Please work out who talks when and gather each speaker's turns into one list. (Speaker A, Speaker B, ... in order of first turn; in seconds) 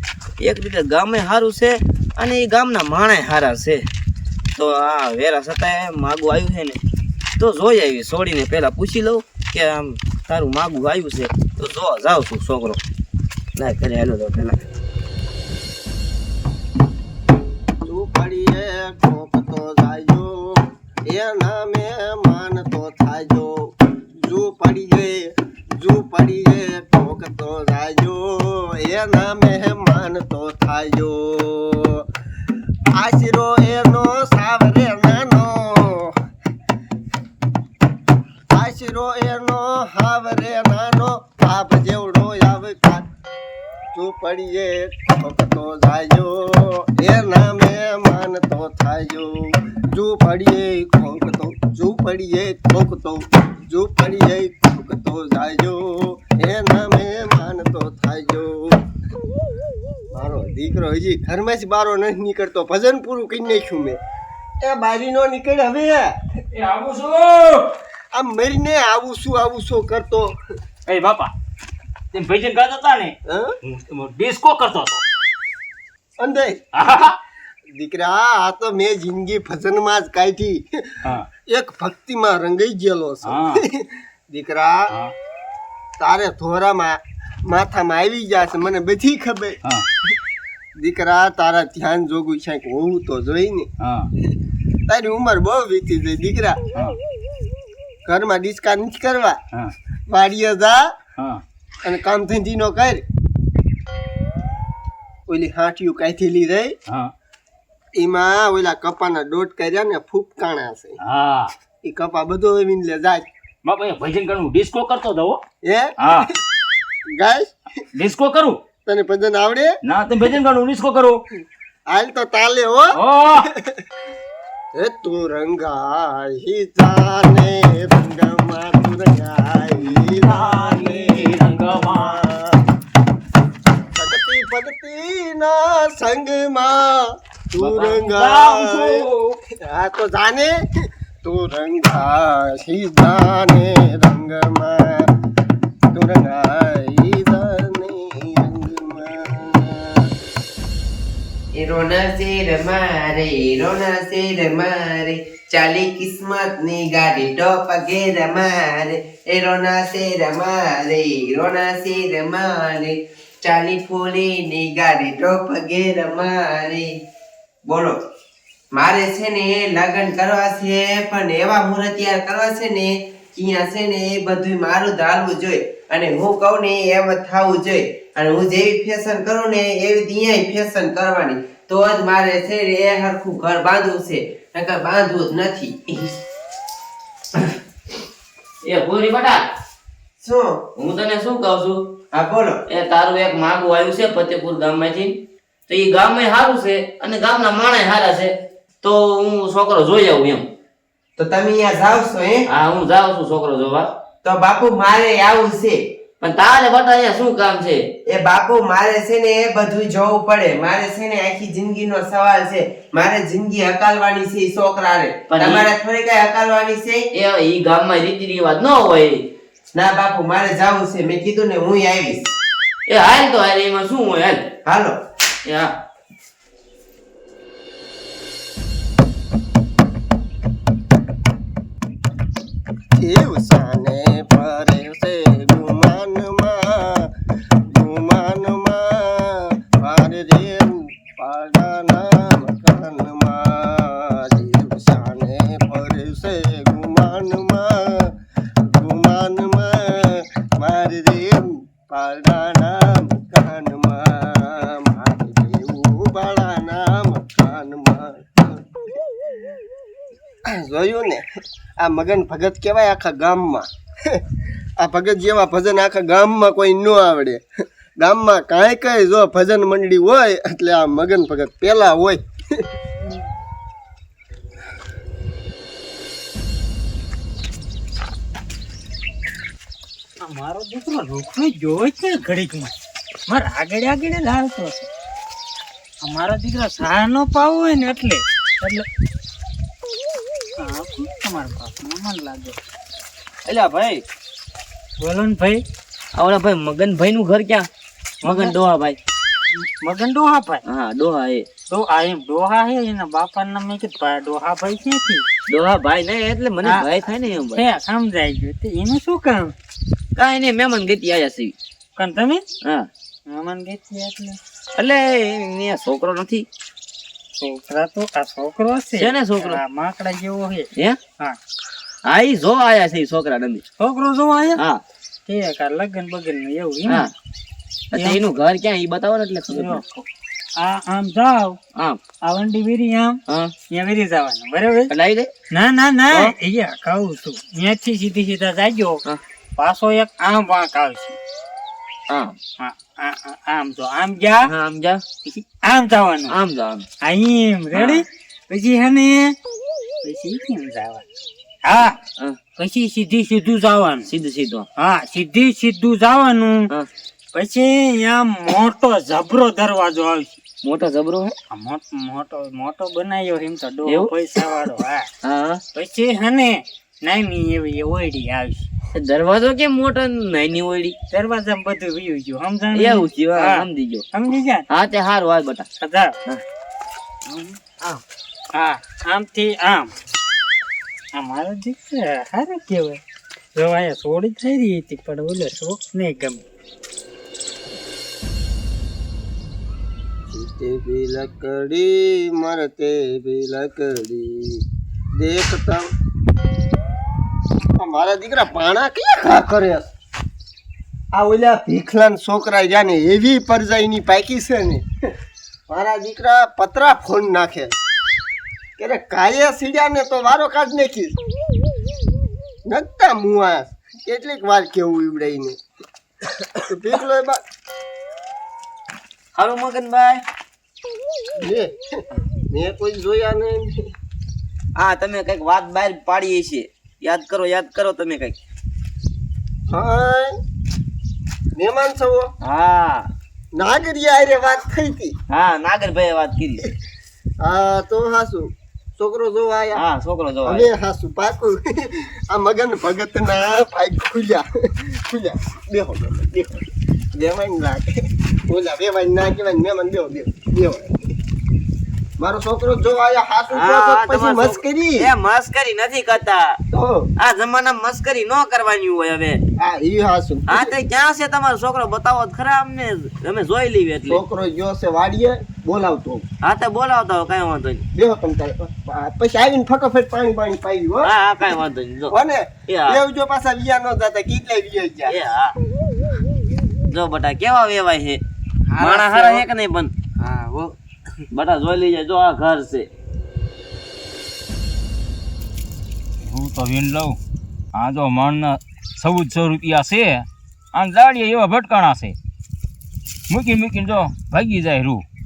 Speaker A: 0.4-3.9, 4.5-6.8, 7.4-12.8, 13.6-14.6, 188.6-189.4, 190.8-191.9, 192.7-200.5, 202.5-203.9, 206.2-207.9, 215.3-215.7, 217.1-219.2, 222.9-224.5, 225.4-225.7, 293.4-294.0, 296.1-297.7, 298.2-299.0, 300.6-301.4, 305.5-307.6, 310.1-311.5, 312.6-312.9, 314.7-316.5, 318.9-319.6, 322.1-323.6, 326.9-327.1, 327.9-329.8, 334.9-335.3, 342.1-342.4, 344.4-345.0, 346.3-346.9, 347.7-348.0, 354.1-354.6, 360.6-361.3, 363.9-364.4, 365.2-365.6, 368.9-370.9, 372.7-374.1, 374.7-375.7, 377.3-378.0, 419.3-420.2, 424.8-428.4, 432.4-433.1, 435.3-436.7, 439.7-440.7, 453.5-456.6, 457.2-459.4, 460.5-464.2, 466.4-467.8, 471.0-472.1, 472.7-473.0, 475.1-475.5, 476.9-478.2, 478.8-479.9, 481.3-482.9
Speaker B: 17.8-32.0, 33.0-36.1, 38.5-43.0, 43.9-58.8, 60.1-64.0, 64.6-66.2, 68.1-70.3, 73.2-73.5, 76.2-76.6, 77.7-84.9, 86.0-89.6, 90.8-93.7, 94.9-96.6, 98.0-99.4, 100.1-100.9, 101.8-103.0, 105.3-106.7, 107.9-111.0, 111.8-113.2, 115.6-116.3, 117.2-117.5, 118.8-119.7, 121.9-123.0, 124.7-132.6, 133.9-139.0, 139.6-140.6, 141.2-145.1, 145.9-150.1, 232.9-237.1, 237.7-258.6, 260.4-264.2, 264.8-267.4, 268.0-272.6, 390.3-394.6, 395.2-395.9, 397.8-399.9, 401.1-404.9, 405.7-407.7, 408.8-411.2, 412.6-415.6, 416.6-417.4, 421.4-421.8, 422.5-423.9, 429.7-430.3, 431.6-432.3, 433.5-435.1, 437.4-439.8, 440.4-451.0, 452.2-455.1, 456.7-457.1, 459.6-460.7, 464.1-466.2, 467.9-471.1, 472.1-475.2
Speaker C: 66.5-67.7, 70.9-71.3, 72.1-75.0, 76.7-77.2, 83.2-83.6, 93.8-94.1, 101.2-101.4, 106.9-107.1, 111.0-111.5, 113.6-115.4, 116.0-116.3, 117.9-118.6, 119.8-121.2, 122.9-123.5, 130.0-132.2, 137.6-139.4, 486.2-487.2, 487.7-492.1, 493.3-495.0
Speaker D: 151.5-166.9, 167.6-168.0, 168.7-186.1, 190.2-190.6, 192.1-192.6, 201.2-202.4, 204.2-205.8, 208.1-217.0, 219.7-222.3, 224.6-225.0, 478.7-479.4, 480.2-480.7
Speaker E: 280.2-282.7, 283.3-284.9, 286.0-288.9, 290.6-292.6, 295.0-295.6, 298.2-298.6, 299.6-300.6, 301.7-305.2, 306.6-306.9, 307.5-309.5, 312.0-312.4, 313.3-314.4, 317.4-320.7, 323.8-324.6, 325.3-327.1, 327.9-328.2, 329.5-330.1, 330.6-331.6, 332.2-334.9, 335.5-339.0, 339.6-341.1, 342.6-344.5, 345.2-346.4, 347.0-349.4, 350.0-351.0, 351.6-352.0, 352.6-354.1, 354.8-356.7, 357.3-360.4, 361.5-365.1, 365.7-368.7, 371.1-374.7, 375.8-376.1, 378.5-379.9, 381.1-383.0, 383.6-386.4